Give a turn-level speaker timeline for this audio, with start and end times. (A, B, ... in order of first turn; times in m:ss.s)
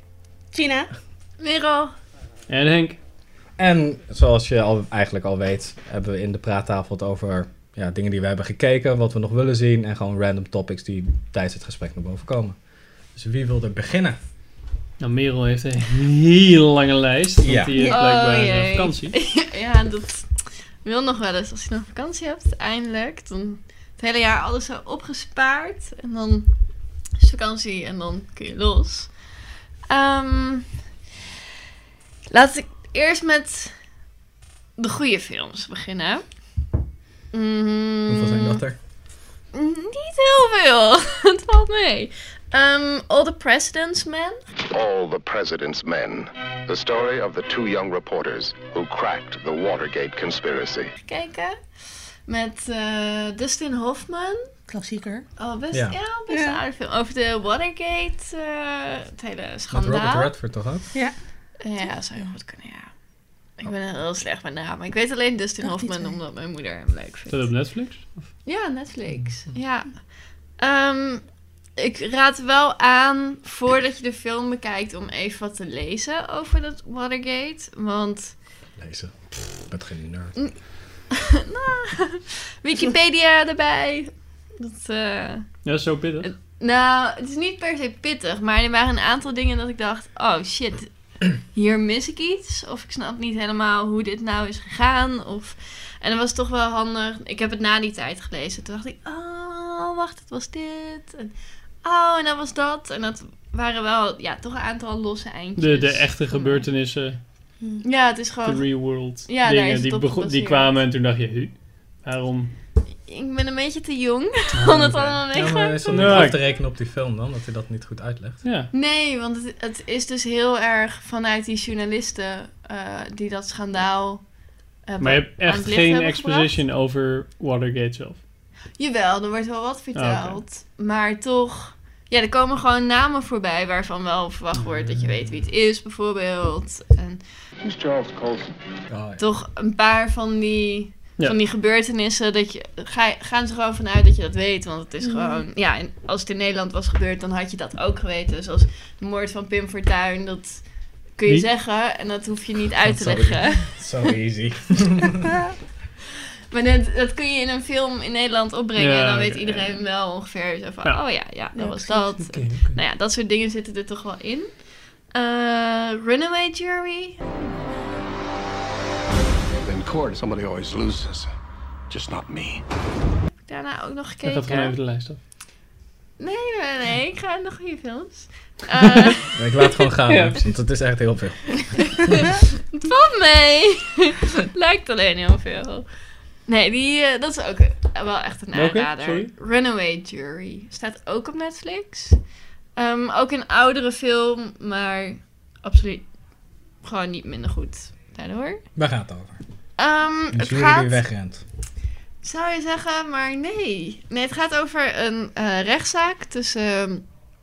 0:00.5-0:00.9 A
0:01.4-0:02.0 B
0:02.5-0:03.0 C
0:03.6-0:12.6 D
0:13.2-0:14.2 D
0:15.0-0:19.2 C
0:17.4-0:17.9 D
0:17.9-0:26.5 B
0:27.2-0:29.1 B
0:29.9-0:30.7 B
0:32.3-0:33.7 B
0:34.8-0:36.2 B
0:37.3-0:38.6 B
0:38.1-0:38.8 D
0:39.5-0:44.4 B
0:44.7-0:50.9 E
0:51.0-0:51.6 B
0:52.3-0:54.4 B
0:54.7-0:55.2 A
0:55.4-1:00.3 B
0:56.3-0:56.6 A
0:59.7-1:00.9 D
1:01.6-1:02.9 B
1:03.6-1:07.5 B
1:05.6-1:06.2 A
1:07.3-1:08.2 C
1:08.4-1:10.0 B
1:10.6-1:11.2 B
1:11.8-1:18.4 B
1:18.8-1:20.4 D
1:21.1-1:25.5 B
1:25.6-1:26.3 C
1:26.2-1:41.3 B
1:41.8-1:46.7 B
1:45.6-1:47.2 C
1:47.8-1:50.8 B
1:48.4-1:52.5 C
1:53.1-1:56.4 B
1:54.5-1:55.2 C
1:55.3-1:58.4 D
1:55.9-1:56.4 C
1:58.4-1:58.7 C
1:58.7-2:04.2 B
2:04.9-2:06.5 B
2:05.0-2:08.2 C
2:08.8-2:17.2 B
2:10.0-2:10.4 C
2:14.6-2:15.4 C
2:17.6-2:18.5 E
2:18.9-2:19.2 D
2:19.2-2:30.6 B
2:25.0-2:25.4 A
2:31.2-2:33.7 B
2:32.8-2:35.4 D
2:36.5-2:44.5 B
2:38.8-2:39.8 C
2:41.6-2:42.1 A
2:42.2-2:42.8 C
2:45.1-2:47.2 B
2:49.6-2:51.3 E
2:51.9-2:52.6 E
2:53.5-2:54.8 B
2:54.2-2:55.2 C
2:56.2-2:59.4 B
2:59.3-3:02.2 D
3:00.1-3:00.4 C
3:02.0-3:05.9 B
3:06.5-3:12.2 B
3:08.5-3:09.3 C
3:12.8-3:16.1 B
3:16.8-3:18.6 B
3:18.8-3:19.4 D
3:19.8-3:21.0 B
3:20.3-3:21.4 D
3:22.2-3:27.0 B